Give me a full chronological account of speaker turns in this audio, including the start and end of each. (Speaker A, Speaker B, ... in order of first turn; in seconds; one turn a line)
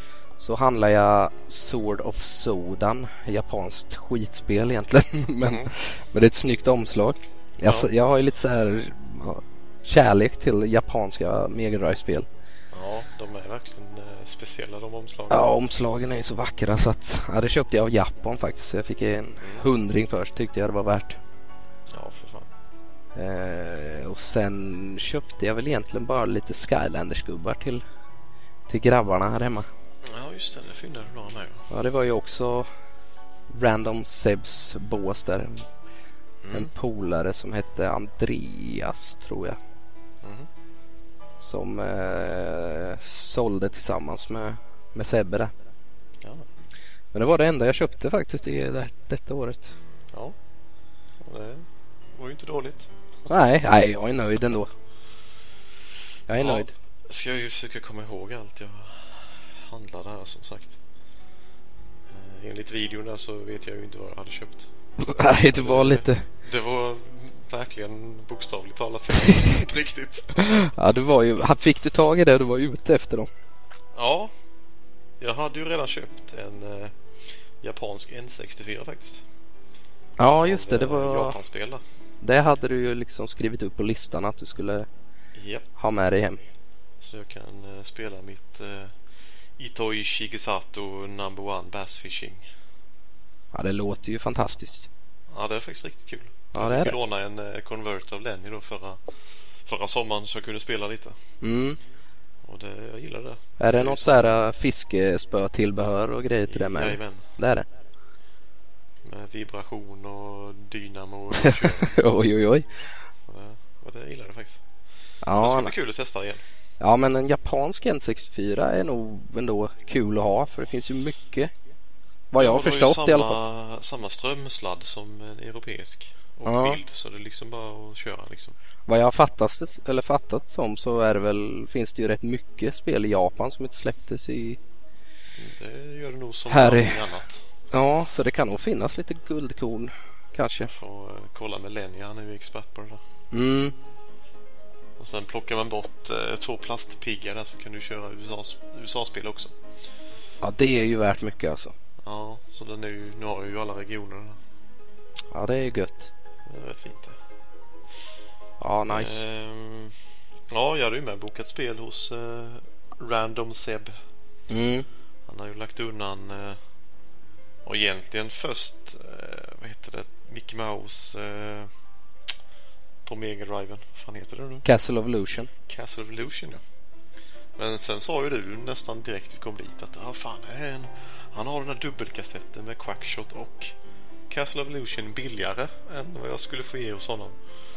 Speaker A: 0.4-12.2
Speaker B: 5.4-5.7
Speaker B: 7.6-7.9
Speaker B: 12.7-15.5
Speaker A: 15.3-21.2
Speaker B: 19.4-19.7
Speaker B: 21.9-22.5
Speaker A: 23.1-27.8
Speaker A: 28.7-29.7
Speaker B: 30.0-31.7
Speaker A: 31.7-32.7
Speaker A: 33.5-35.6
Speaker B: 36.4-36.7
Speaker A: 36.5-39.6
Speaker B: 40.2-40.5
Speaker A: 41.4-45.5
Speaker A: 47.1-49.7
Speaker B: 51.2-52.9
Speaker A: 53.3-54.7
Speaker A: 56.3-56.7
Speaker B: 56.4-60.8
Speaker B: 62.1-64.7
Speaker A: 65.0-66.2
Speaker B: 65.2-70.5
Speaker A: 70.4-73.3
Speaker B: 73.9-74.3
Speaker B: 75.2-79.2
Speaker A: 80.2-81.4
Speaker B: 80.4-81.8
Speaker A: 82.2-84.9
Speaker B: 85.4-85.7
Speaker A: 85.8-86.4
Speaker B: 87.0-88.9
Speaker B: 89.6-92.5
Speaker A: 93.5-94.9
Speaker B: 95.3-99.0
Speaker A: 96.5-97.0
Speaker B: 99.6-101.2
Speaker A: 101.4-101.8
Speaker B: 102.4-104.3
Speaker A: 103.6-107.7
Speaker B: 106.5-107.3
Speaker B: 109.0-112.0
Speaker A: 111.3-112.8
Speaker B: 113.3-114.6
Speaker A: 115.2-115.7
Speaker B: 115.3-116.4
Speaker A: 116.8-121.5
Speaker A: 122.3-123.4
Speaker B: 122.4-128.6
Speaker A: 126.5-126.8
Speaker A: 128.9-134.6
Speaker B: 135.4-137.4
Speaker A: 136.5-137.1
Speaker A: 137.7-140.7
Speaker B: 140.6-143.0
Speaker A: 143.3-143.7
Speaker B: 145.0-149.5
Speaker A: 150.4-151.7
Speaker B: 152.0-154.4
Speaker A: 155.3-156.1
Speaker B: 156.4-157.2
Speaker A: 158.6-159.2
Speaker B: 158.9-159.9
Speaker B: 160.5-163.9
Speaker A: 164.5-164.9
Speaker B: 165.3-166.6
Speaker B: 167.6-171.7
Speaker B: 173.0-174.7
Speaker A: 174.6-175.5
Speaker B: 175.7-176.6
Speaker B: 177.6-183.7
Speaker B: 184.3-187.4